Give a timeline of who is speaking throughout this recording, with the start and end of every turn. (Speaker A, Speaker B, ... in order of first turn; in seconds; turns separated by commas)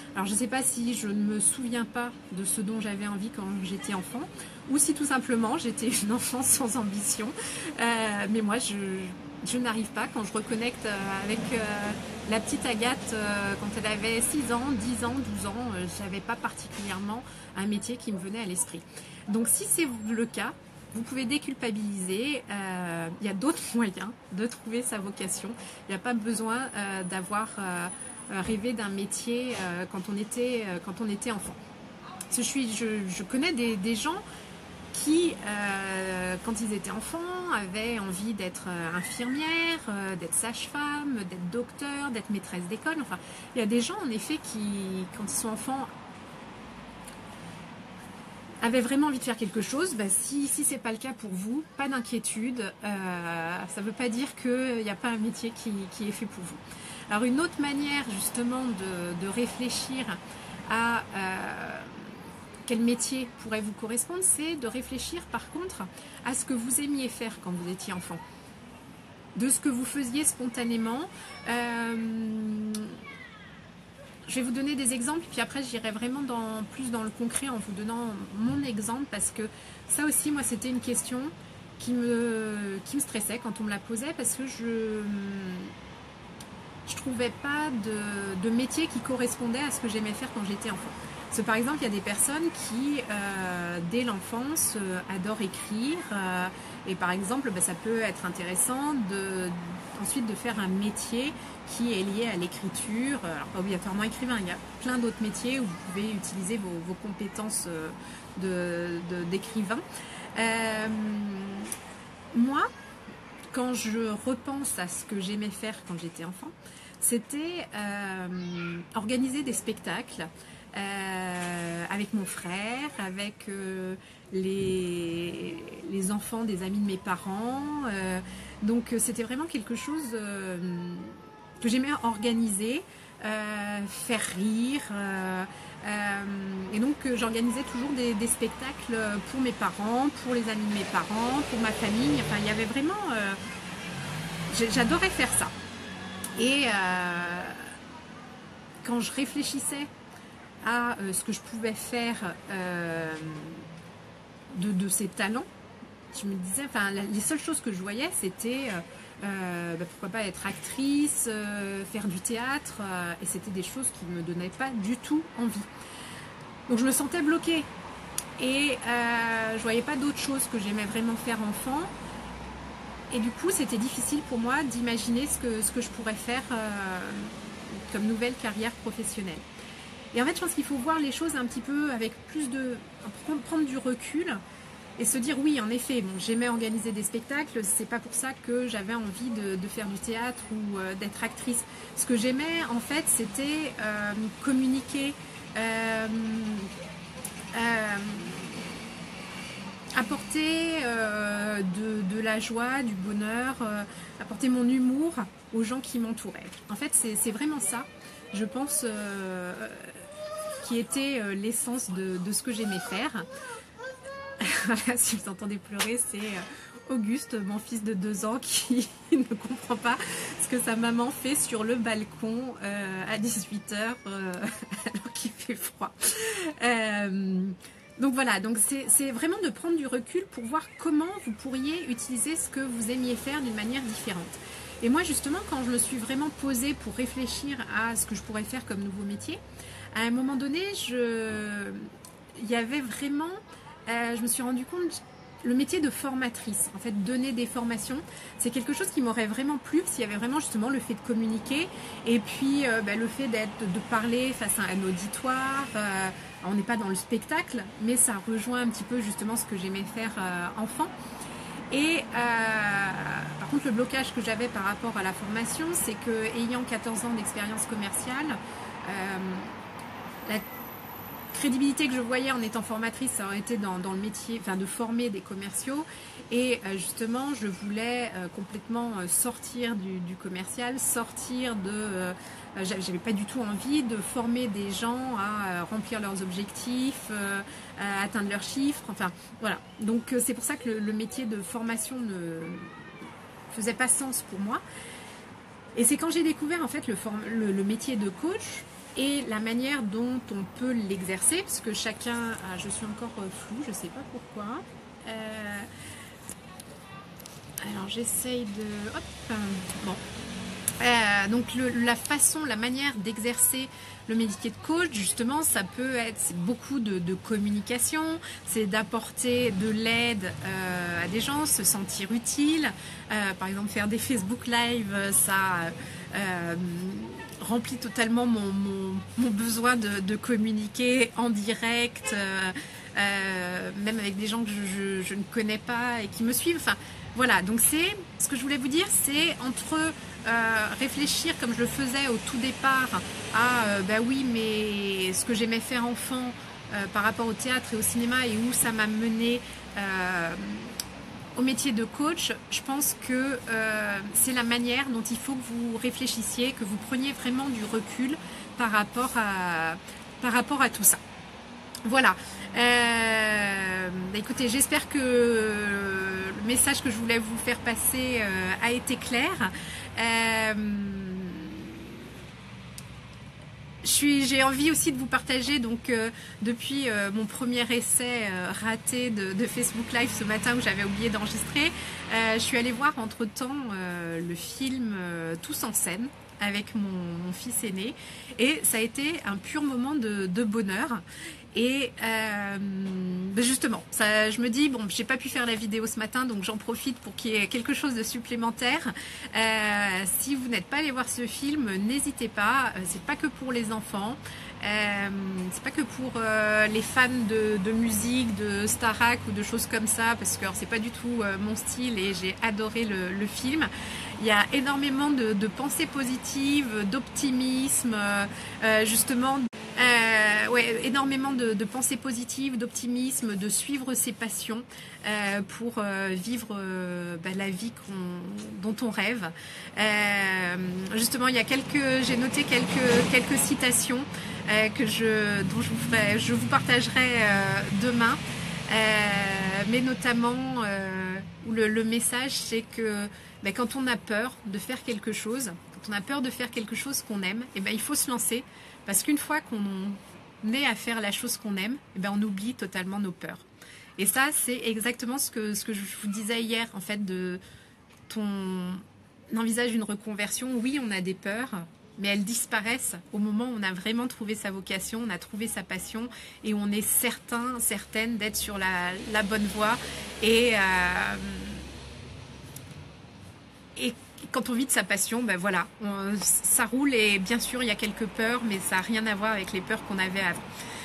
Speaker A: 0.1-31.6, Speaker A: 32.3-34.2, Speaker A: 34.9-45.9, Speaker A: 48.6-68.2, Speaker A: 69.3-73.0, Speaker A: 74.3-85.7, Speaker A: 86.8-109.8, Speaker A: 110.3-111.7, Speaker A: 112.3-112.7, Speaker A: 113.5-143.4, Speaker A: 144.5-145.5, Speaker A: 146.4-147.8, Speaker A: 148.8-149.9, Speaker A: 150.6-153.7, Speaker A: 154.5-155.5, Speaker A: 156.1-165.7, Speaker A: 166.7-167.7, Speaker A: 168.4-171.9, Speaker A: 173.1-179.5, Speaker A: 180.1-184.4, Speaker A: 185.0-196.7, Speaker A: 197.5-198.7, Speaker A: 200.0-210.0, Speaker A: 210.6-213.3, Speaker A: 214.4-239.4, Speaker A: 239.9-260.9, Speaker A: 261.7-269.5, Speaker A: 271.3-292.9, Speaker A: 293.5-294.6, Speaker A: 295.8-305.7, Speaker A: 307.6-310.0, Speaker A: 310.8-350.8, Speaker A: 351.4-361.0, Speaker A: 361.9-372.0, Speaker A: 373.8-453.4, Speaker A: 454.0-457.4, Speaker A: 458.1-471.7, Speaker A: 473.8-480.4